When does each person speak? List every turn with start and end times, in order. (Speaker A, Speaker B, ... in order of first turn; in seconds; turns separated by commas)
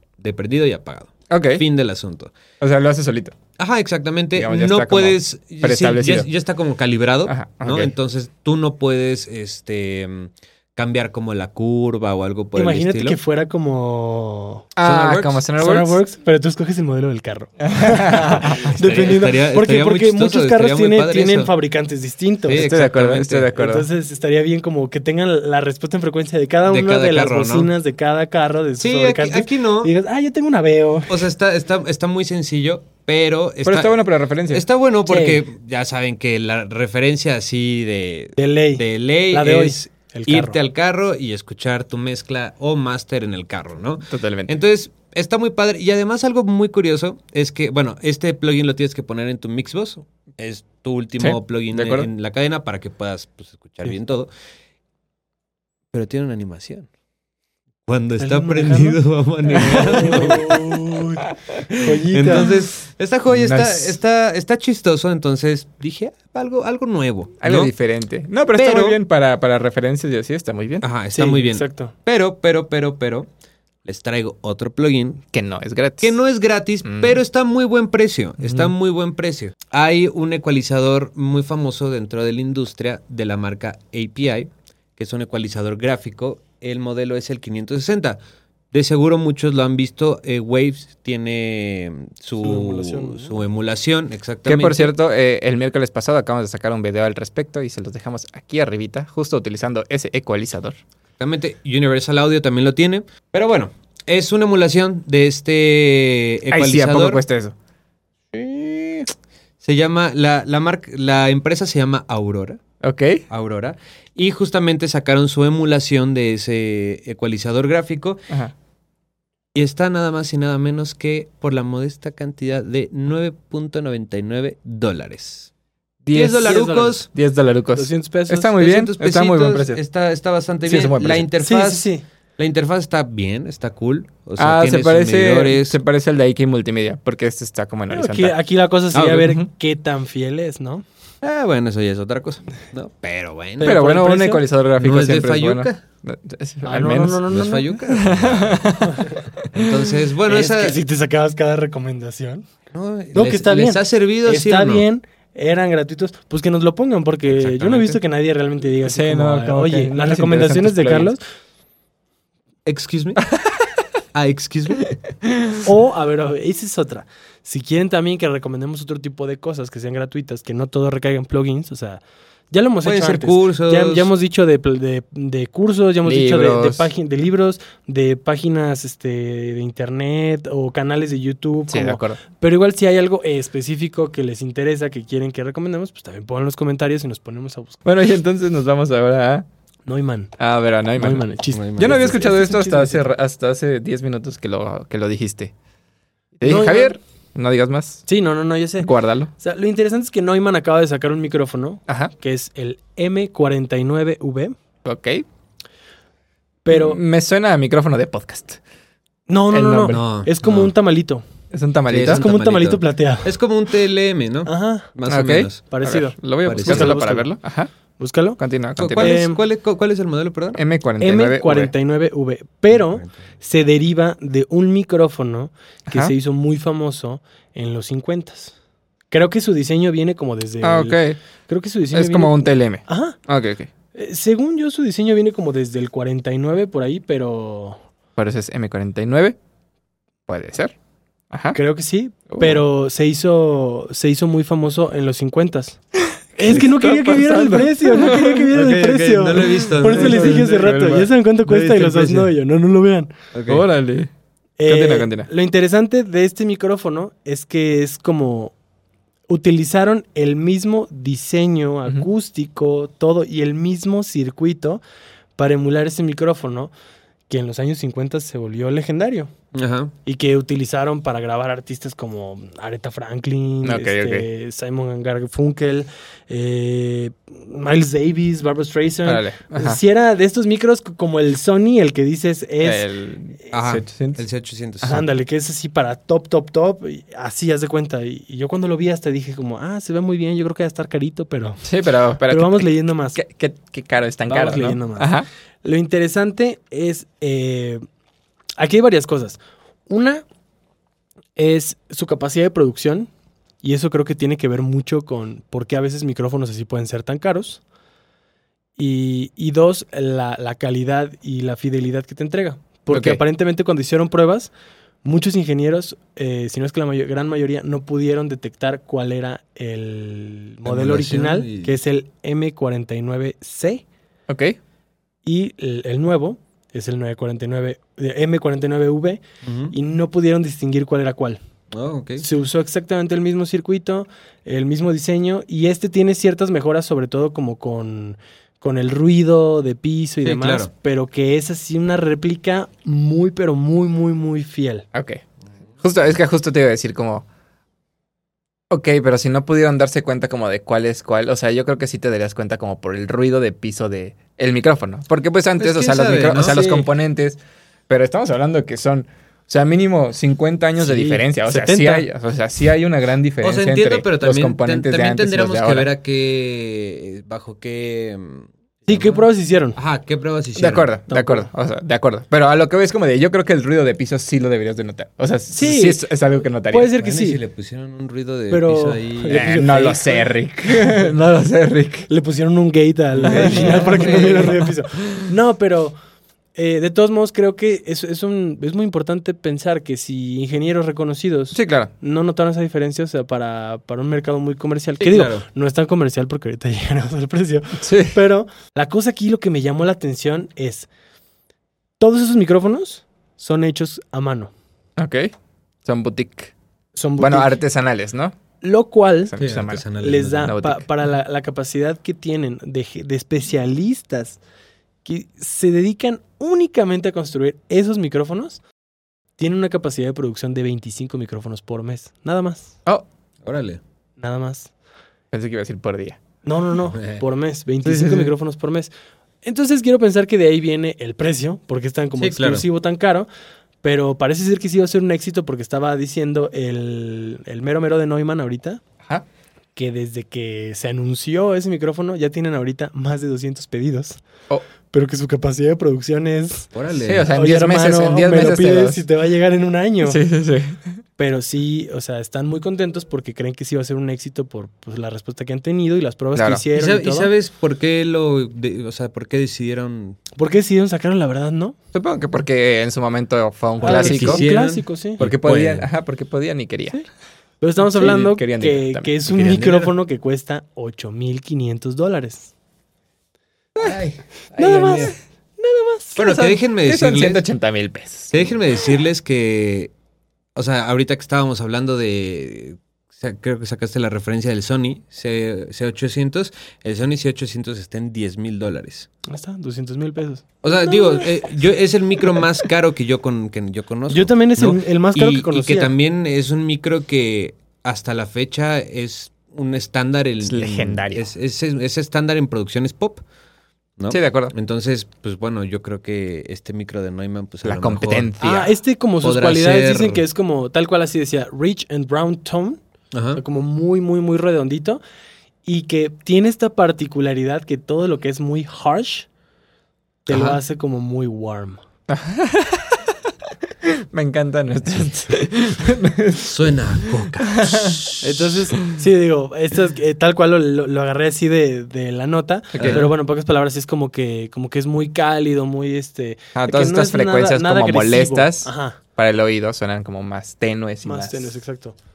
Speaker A: 0.2-2.3, Speaker B: 1.3-1.6, Speaker B: 2.6-3.4, Speaker A: 3.6-13.2, Speaker B: 4.3-6.3, Speaker B: 7.3-7.9, Speaker C: 12.5-14.7, Speaker B: 14.8-16.0, Speaker A: 14.8-15.4, Speaker C: 15.6-22.7, Speaker B: 17.6-18.7, Speaker A: 18.6-21.5, Speaker A: 22.5-23.5, Speaker B: 22.5-23.9, Speaker C: 23.5-31.2, Speaker A: 26.7-27.7, Speaker A: 28.8-29.9, Speaker A: 31.1-54.3, Speaker B: 33.6-34.6, Speaker C: 35.1-35.4, Speaker C: 38.4-40.6, Speaker B: 44.1-44.5, Speaker B: 51.2-52.1, Speaker A: 55.9-56.9, Speaker A: 57.9-61.0, Speaker C: 58.2-62.6, Speaker B: 60.1-60.5, Speaker A: 61.7-67.7, Speaker B: 63.3-64.0, Speaker B: 67.4-70.8, Speaker A: 68.5-69.0, Speaker A: 70.8-73.3, Speaker C: 71.1-71.9, Speaker A: 73.8-75.2, Speaker B: 75.3-76.1, Speaker A: 76.0-88.2, Speaker B: 76.8-77.2, Speaker B: 78.4-78.7, Speaker A: 88.7-94.9, Speaker C: 92.4-93.4, Speaker B: 94.4-100.8, Speaker A: 101.2-107.2, Speaker B: 106.5-107.5, Speaker A: 108.3-112.6, Speaker B: 112.8-113.2, Speaker A: 113.3-118.3, Speaker B: 118.3-118.5, Speaker A: 119.5-125.5, Speaker B: 126.0-129.8, Speaker A: 126.1-127.1, Speaker C: 126.3-127.0, Speaker C: 127.7-128.5, Speaker A: 128.6-131.9, Speaker B: 130.6-131.3, Speaker C: 131.4-132.0, Speaker A: 132.4-135.8, Speaker B: 134.4-138.3, Speaker C: 137.9-140.8, Speaker A: 138.9-139.4, Speaker A: 141.2-143.8, Speaker C: 143.6-144.4, Speaker B: 143.6-147.2, Speaker A: 144.8-145.8, Speaker C: 146.6-147.8, Speaker A: 147.3-148.7, Speaker B: 147.9-149.7, Speaker A: 149.5-150.8, Speaker C: 150.3-152.4, Speaker A: 152.7-154.8, Speaker C: 153.1-161.2, Speaker A: 157.3-157.9, Speaker B: 158.8-161.1, Speaker A: 162.7-163.2, Speaker A: 164.1-164.9, Speaker B: 165.2-165.6, Speaker C: 165.6-187.8, Speaker A: 172.8-174.1, Speaker B: 176.0-176.9, Speaker B: 181.7-182.2, Speaker B: 187.8-189.4, Speaker C: 189.9-190.3, Speaker B: 190.4-191.2, Speaker C: 190.9-193.0, Speaker A: 191.5-192.2, Speaker B: 191.8-195.5, Speaker B: 196.4-198.0, Speaker C: 196.4-197.0, Speaker C: 198.1-204.5, Speaker B: 198.8-199.3, Speaker B: 204.8-205.2, Speaker C: 206.6-207.0, Speaker B: 206.7-208.6, Speaker C: 209.3-211.2, Speaker B: 209.5-210.0, Speaker A: 209.9-210.7, Speaker B: 211.5-212.2, Speaker A: 211.9-215.6, Speaker C: 212.1-213.4, Speaker C: 214.4-214.9, Speaker B: 215.1-217.7, Speaker C: 215.7-217.3, Speaker A: 216.4-217.0, Speaker C: 218.0-218.4, Speaker B: 218.4-219.2, Speaker A: 218.8-220.6, Speaker C: 218.9-219.4, Speaker B: 220.6-221.7, Speaker C: 221.0-228.5, Speaker A: 222.7-223.2, Speaker B: 225.9-226.1, Speaker C: 229.1-233.2, Speaker B: 230.6-231.2, Speaker B: 231.9-233.7, Speaker C: 233.9-237.8, Speaker B: 238.2-239.4, Speaker B: 240.3-240.7, Speaker B: 241.3-241.6, Speaker C: 241.5-245.8, Speaker B: 242.3-242.6, Speaker B: 246.4-248.5, Speaker C: 246.4-253.1, Speaker A: 248.5-250.5, Speaker B: 249.9-251.1, Speaker A: 251.4-252.3, Speaker A: 253.3-253.6, Speaker B: 253.5-254.1, Speaker C: 254.6-258.5, Speaker B: 254.7-255.3, Speaker C: 259.3-264.8, Speaker C: 265.4-266.7, Speaker C: 267.3-269.3, Speaker A: 269.5-269.9, Speaker C: 270.1-282.9, Speaker B: 273.6-274.3, Speaker B: 279.0-279.8, Speaker B: 282.6-284.2, Speaker A: 283.5-285.0, Speaker B: 284.8-285.1, Speaker C: 284.9-291.6, Speaker B: 291.6-295.3, Speaker C: 292.3-293.2, Speaker C: 294.3-297.8, Speaker C: 298.6-300.2, Speaker C: 301.4-303.1, Speaker C: 303.6-307.6, Speaker C: 308.8-314.5, Speaker B: 312.9-313.2, Speaker C: 315.0-323.8, Speaker A: 320.6-321.7, Speaker B: 324.3-324.6, Speaker C: 325.2-331.4, Speaker A: 329.4-329.7, Speaker A: 331.7-332.3, Speaker C: 332.2-344.9, Speaker A: 340.2-340.7, Speaker B: 344.9-345.2, Speaker B: 345.8-347.2, Speaker B: 348.7-365.9, Speaker A: 355.6-356.7, Speaker C: 356.4-356.9, Speaker C: 360.8-362.1, Speaker A: 363.4-370.9, Speaker C: 368.9-369.8, Speaker B: 370.6-376.9, Speaker C: 371.1-371.5, Speaker C: 375.5-376.0, Speaker C: 376.7-377.4, Speaker A: 377.0-379.7, Speaker C: 378.5-381.1, Speaker B: 379.3-382.1, Speaker C: 382.1-385.9, Speaker A: 383.1-384.6, Speaker B: 383.2-384.7, Speaker C: 386.5-400.9, Speaker B: 391.5-391.9, Speaker A: 395.0-395.4, Speaker B: 397.8-398.1, Speaker C: 402.0-404.5, Speaker B: 405.0-405.3, Speaker B: 405.8-406.5, Speaker C: 406.9-407.6, Speaker B: 407.2-408.4, Speaker C: 408.6-409.4, Speaker B: 409.3-409.8, Speaker A: 409.4-410.5, Speaker C: 409.9-414.4, Speaker B: 410.4-410.9, Speaker C: 415.0-418.6, Speaker C: 419.4-422.7, Speaker A: 423.4-423.8, Speaker C: 424.2-424.7, Speaker B: 425.3-426.2, Speaker C: 426.4-428.9, Speaker A: 426.9-427.2, Speaker B: 427.8-428.3, Speaker C: 429.4-433.3, Speaker A: 432.2-432.6, Speaker C: 433.8-438.8, Speaker C: 439.8-444.2, Speaker C: 444.9-446.7, Speaker A: 446.7-447.3, Speaker B: 447.1-449.0, Speaker C: 447.3-450.2, Speaker B: 450.0-450.9, Speaker C: 451.2-457.3, Speaker B: 456.3-456.6, Speaker A: 456.7-460.2, Speaker C: 460.4-461.7, Speaker B: 461.9-464.4, Speaker A: 463.8-465.9, Speaker C: 463.8-465.2, Speaker B: 465.2-467.0, Speaker C: 467.6-472.5, Speaker B: 467.9-469.2, Speaker A: 469.3-469.9, Speaker A: 473.8-475.1, Speaker C: 474.6-476.2, Speaker A: 476.2-477.4, Speaker B: 476.2-478.5, Speaker A: 478.3-479.9, Speaker A: 480.6-489.1, Speaker C: 489.3-491.3, Speaker A: 490.6-503.2, Speaker C: 494.1-495.9, Speaker B: 500.4-501.3, Speaker A: 504.0-508.3, Speaker B: 504.1-504.5, Speaker B: 507.6-508.7, Speaker C: 508.4-512.8, Speaker A: 509.2-510.2, Speaker A: 513.1-513.4, Speaker C: 513.4-515.0, Speaker C: 515.6-519.3, Speaker C: 520.2-521.8, Speaker A: 520.3-520.6, Speaker B: 522.1-523.1, Speaker B: 523.8-526.5, Speaker A: 526.4-528.5, Speaker B: 527.4-528.0, Speaker C: 528.2-539.0, Speaker B: 532.7-533.1, Speaker A: 532.8-533.1, Speaker B: 536.5-541.5, Speaker C: 541.0-542.0